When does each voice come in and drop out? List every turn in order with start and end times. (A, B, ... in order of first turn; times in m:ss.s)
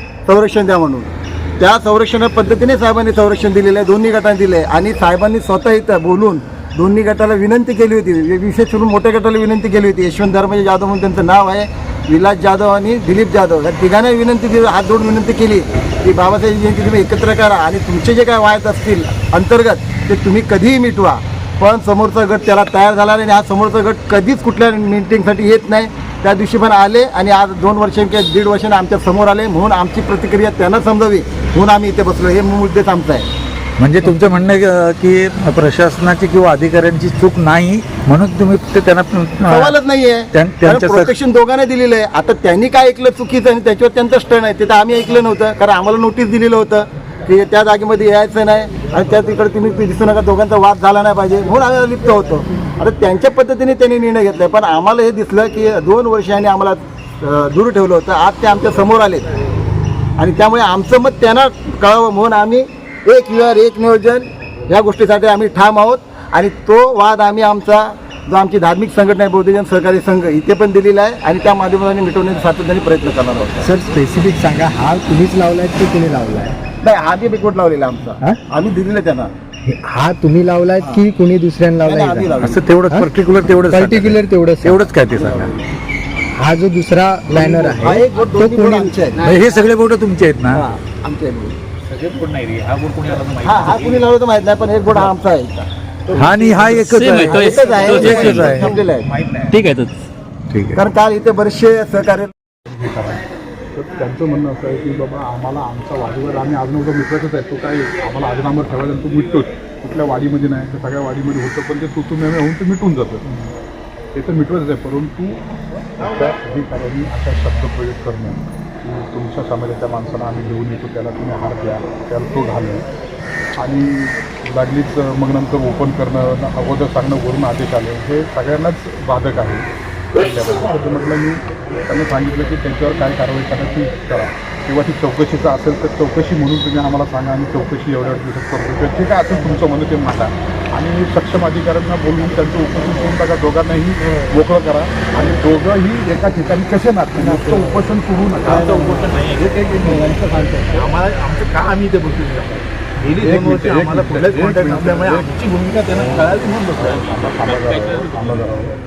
0:00.3-0:33.3 A
0:33.8-0:39.8 B
0:39.4-0:59.3 A
0:40.3-0:41.1 B
1:00.2-1:13.7 A
1:13.6-1:16.6 C
1:16.8-1:19.3 A
1:19.7-1:23.1 C
1:21.8-1:22.7 A
1:22.4-1:25.5 B
1:23.7-1:25.5 C
1:26.4-1:29.1 C
1:27.3-1:29.4 A
1:29.2-1:30.7 B
1:29.2-1:29.5 D
1:30.6-1:31.5 A
1:31.8-1:34.1 D
1:33.4-1:39.0 A
1:36.1-1:38.8 B
1:36.2-1:39.8 D
1:40.5-1:40.8 B
1:40.7-1:42.3 A
1:42.7-1:53.3 E
1:54.1-1:55.4 E
1:56.0-2:02.8 E
2:03.6-2:30.2 E
2:28.5-2:30.0 D
2:30.7-2:37.0 D
2:33.1-2:35.3 E
2:36.8-2:38.8 E
2:37.8-2:38.1 D